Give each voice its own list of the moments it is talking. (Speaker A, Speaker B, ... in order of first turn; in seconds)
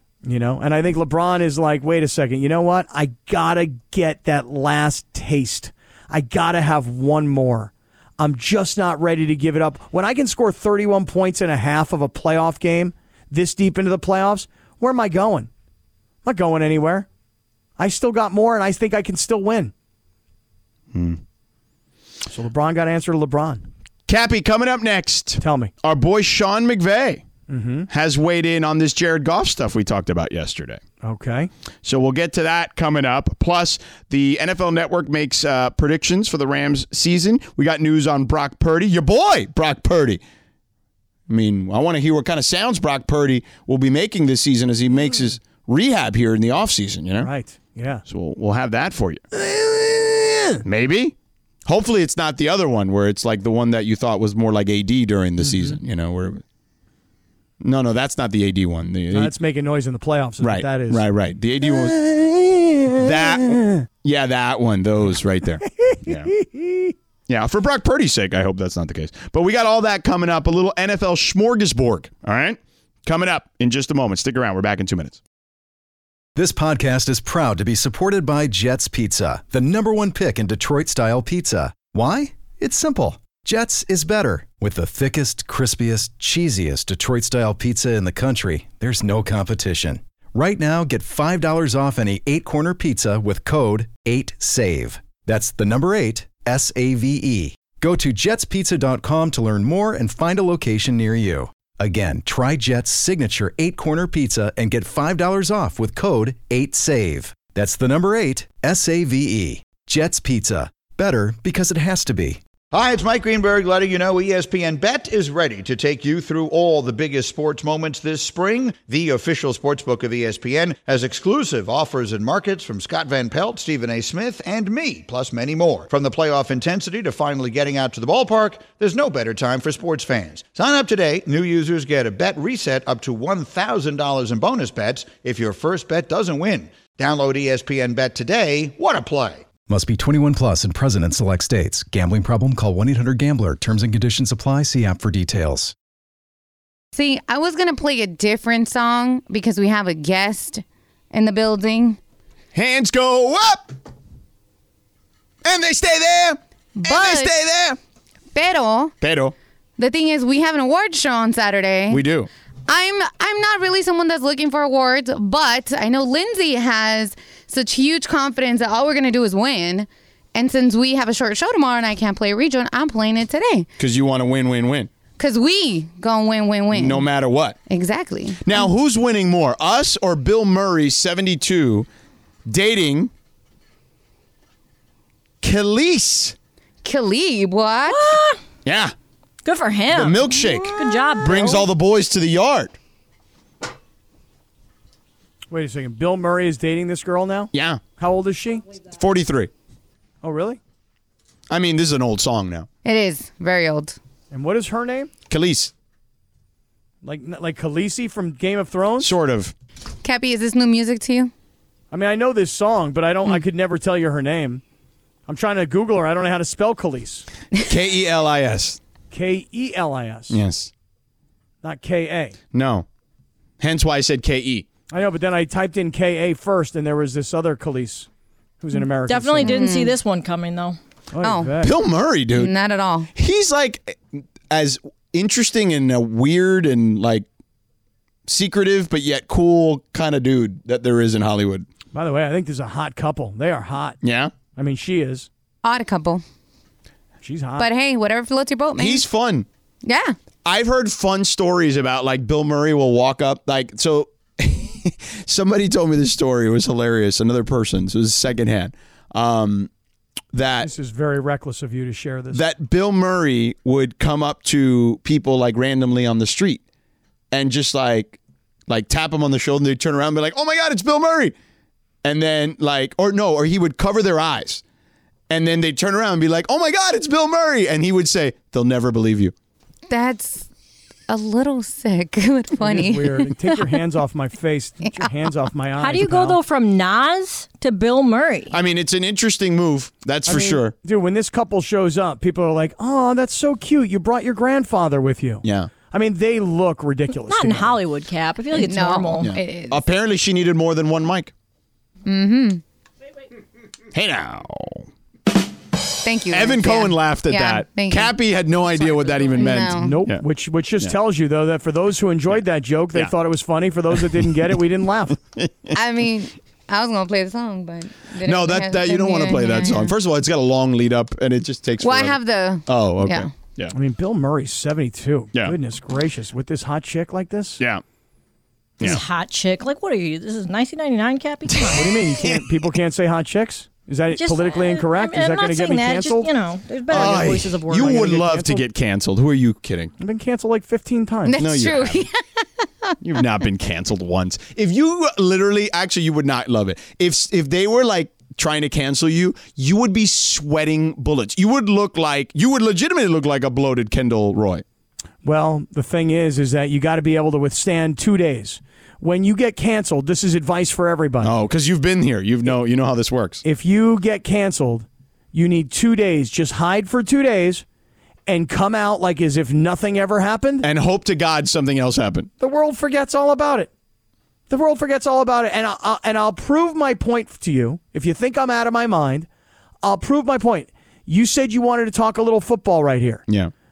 Speaker A: 0.2-15.5, 16.2-17.1, 17.8-19.7, 22.3-23.6, 25.4-25.7, 27.5-27.9, 31.0-31.5, 47.2-48.0, 49.3-50.6, 55.4-55.8, 59.1-61.1, 61.6-63.9, 65.8-66.9, 195.5-198.7, 200.2-200.6, 204.3-205.1, 207.0-209.1, 211.9-214.6, 215.3-217.3, 219.1-220.4, 221.6-222.3, 224.9-228.1, 228.6-229.6, 231.1-231.8, 241.9-244.0, 244.6-245.3, 247.2-247.7, 260.6-262.4, 282.6-286.4, 290.3-297.8, 309.7-315.2, 323.7-327.6, 331.7-336.3, 336.9-338.6, 340.0-341.4, 355.2-361.3, 363.4-367.6, 368.3-370.7, 372.4-373.7, 374.5-379.3, 379.8-383.2
Speaker B: 20.9-21.2, 24.1-27.2, 27.9-30.8, 31.8-40.2, 41.3-47.3, 48.1-49.2, 50.6-51.1, 51.7-56.4, 57.6-59.3, 60.4-62.0, 63.0-66.3, 67.3-75.2, 152.5-153.7, 155.4-157.8, 159.0-159.3, 161.9-162.3, 173.8-174.9, 176.7-177.6, 178.4-181.9, 182.5-183.1, 185.4-186.3, 188.7-188.9, 189.9-192.8, 197.5-197.8, 199.0-199.5, 201.5-202.7, 205.3-205.7, 209.0-209.5, 217.7-218.8, 220.3-220.7, 222.5-222.9, 223.6-224.7, 231.6-232.5, 233.2-237.2, 238.3-241.7, 244.0-244.3, 248.8-249.5, 250.4-259.7, 260.3-260.7, 262.3-266.6, 267.3-271.3, 272.0-274.6, 275.3-279.3, 288.5-290.7, 295.4-295.7, 299.2-301.3, 303.9-304.9, 306.3-310.2, 315.4-315.8, 318.2-323.7, 331.5-332.4, 336.9-339.9, 341.4-342.1, 343.0-354.6, 361.2-363.4, 370.6-372.3
Speaker C: 76.3-112.4, 139.7-145.7
Speaker D: 112.7-139.4
Speaker E: 146.9-152.0, 156.8-157.3, 158.3-158.9, 159.8-162.0, 162.7-173.7, 175.2-177.1, 177.7-178.7, 186.8-188.2, 202.8-204.0, 210.0-211.3, 229.4-229.9, 231.2-231.6, 232.3-233.1, 245.6-246.2, 247.6-249.1, 249.8-250.2, 279.9-280.5, 281.1-283.6, 298.5-299.9, 302.1-302.6, 306.0-308.2, 308.9-310.0, 315.7-320.0, 321.8-323.3, 341.3-343.0
Speaker F: 187.9-188.4, 189.4-191.7, 229.1-230.8, 285.8-288.6, 297.3-299.3, 328.8-331.9, 334.1-338.0